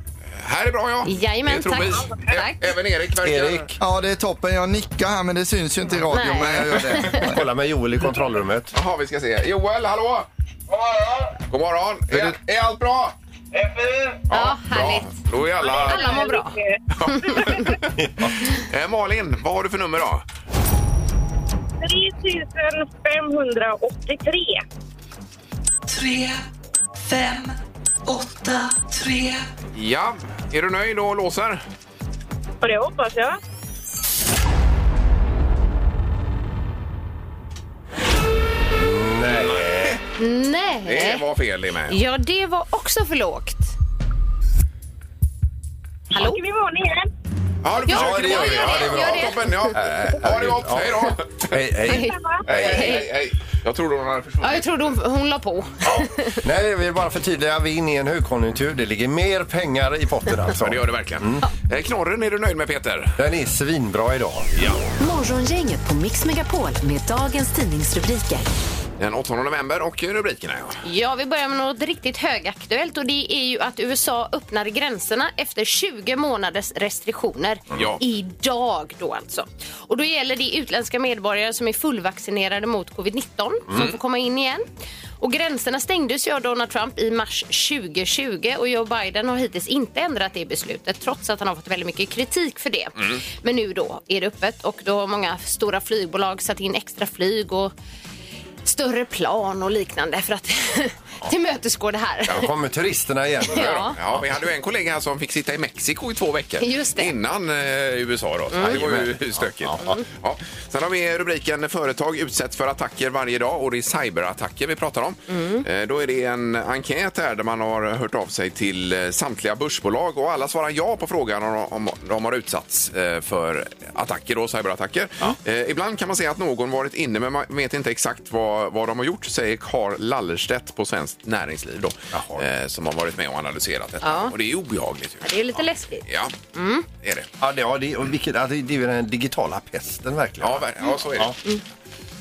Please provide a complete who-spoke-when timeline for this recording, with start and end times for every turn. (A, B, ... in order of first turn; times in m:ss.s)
0:00.4-0:03.7 A
0:01.0-0:02.7 B
0:03.2-0:03.8 C
0:03.8-0:07.4 D
0:06.1-0:07.3 B
0:06.5-0:06.9 A
0:07.2-0:08.7 C
0:08.7-0:10.3 A
0:11.3-0:13.2 A
0:14.3-0:16.2 A
0:14.3-0:17.8 B
0:15.6-0:16.8 E
0:16.9-0:20.2 A
0:18.0-0:18.4 C
0:21.8-0:24.6 E
0:25.9-0:26.4 F
0:27.0-0:29.5 F
0:29.7-0:31.6 A
0:32.6-0:33.4 E
0:38.7-0:40.0 C
0:39.3-0:40.0 A
0:40.2-0:41.2 B
0:40.8-0:42.0 A
0:41.9-0:43.7 B
0:46.1-0:46.4 B
0:46.1-0:47.1 E
0:47.6-0:51.6 A
0:47.9-0:49.7 B
0:47.9-0:53.0 C
0:51.9-0:53.1 B
0:51.9-0:52.4 E
0:52.4-0:54.6 A
0:54.4-0:56.4 B
0:55.8-1:01.5 C
1:00.6-1:03.2 A
1:03.2-1:04.5 C
1:04.5-1:04.8 A
1:05.0-1:08.5 G
1:09.0-1:10.8 A
1:10.8-1:24.6 B
1:17.7-1:18.0 A
1:25.2-1:37.7 B
1:38.6-1:42.5 B
1:42.3-1:44.2 C
1:43.5-1:44.0 B
1:43.5-2:16.4 A
1:46.6-1:47.1 B
1:48.5-1:48.8 B
1:48.6-1:49.9 C
1:55.3-1:55.6 B
2:12.1-2:12.4 C
2:14.0-2:14.3 B
2:15.2-2:16.9 B
2:17.0-2:17.3 A
2:17.4-2:21.4 C
2:20.4-2:21.4 A